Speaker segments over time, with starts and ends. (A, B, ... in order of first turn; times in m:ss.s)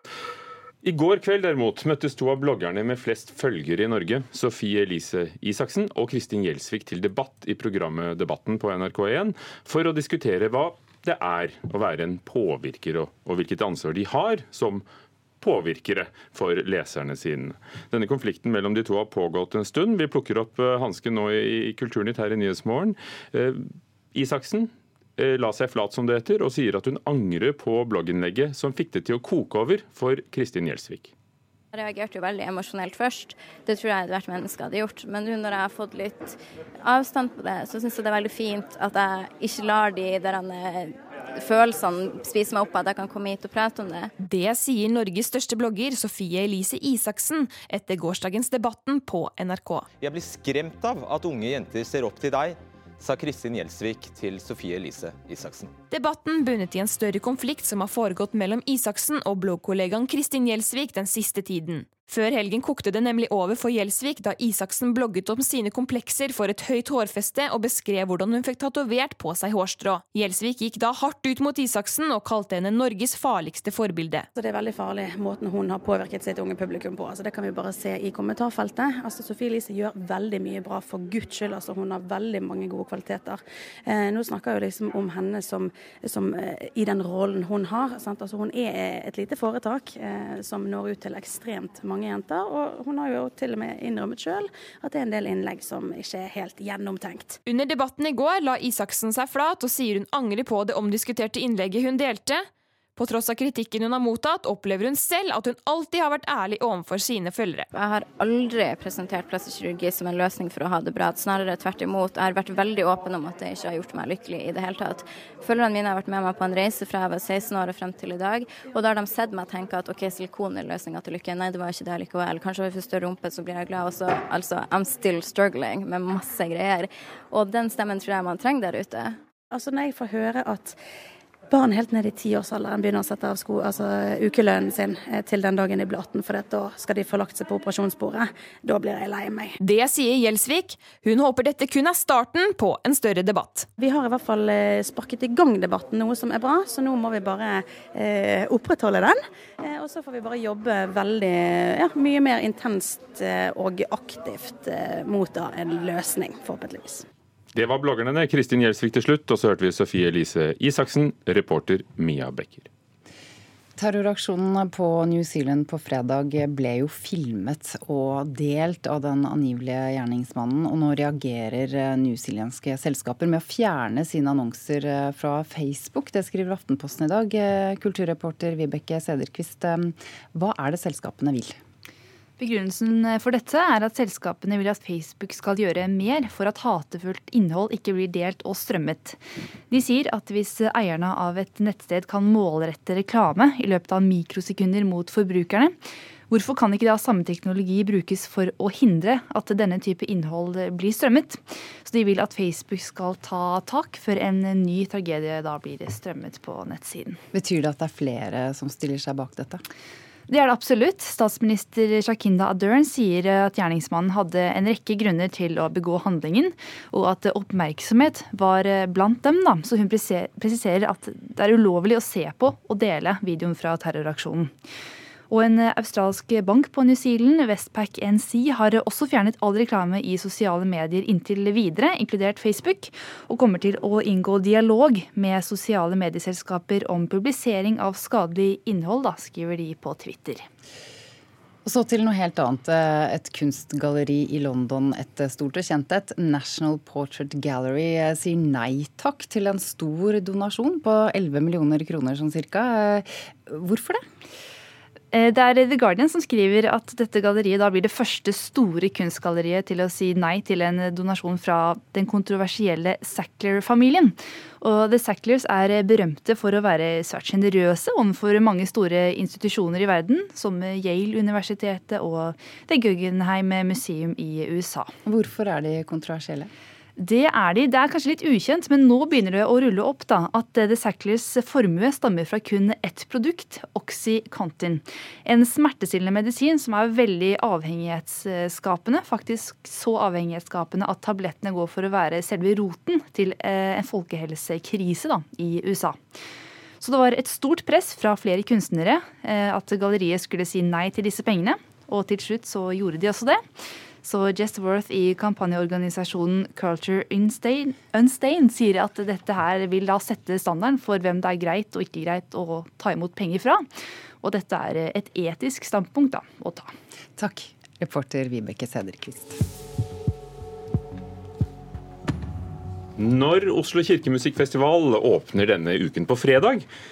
0:00.8-0:14.8 A
0:15.4-0:23.6 A
0:24.1-0:31.1 A
0:31.7-0:44.1 B
0:44.2-0:49.9 C
0:50.0-0:55.7 D
0:55.9-1:14.3 C
1:14.5-1:37.3 E
1:37.4-1:47.7 C
1:47.7-2:09.2 B
2:09.5-2:10.7 E
2:11.5-2:19.4 E
2:19.6-2:23.7 C
2:23.8-2:37.0 E
2:37.5-2:42.7 A
2:43.8-3:01.6 F
3:02.4-3:09.2 G
3:09.7-3:15.7 G
3:16.3-3:27.2 G
3:27.3-3:29.6 F
3:30.3-3:44.5 G
3:45.3-4:00.4 G
4:01.6-4:14.0 F
4:15.1-4:34.9 G
4:35.0-4:36.5 F
4:37.0-4:56.0 G
4:56.8-5:03.4 G
5:04.0-5:13.6 G
5:14.2-5:16.7 G
5:17.2-5:19.4 F
5:23.0-5:26.7 A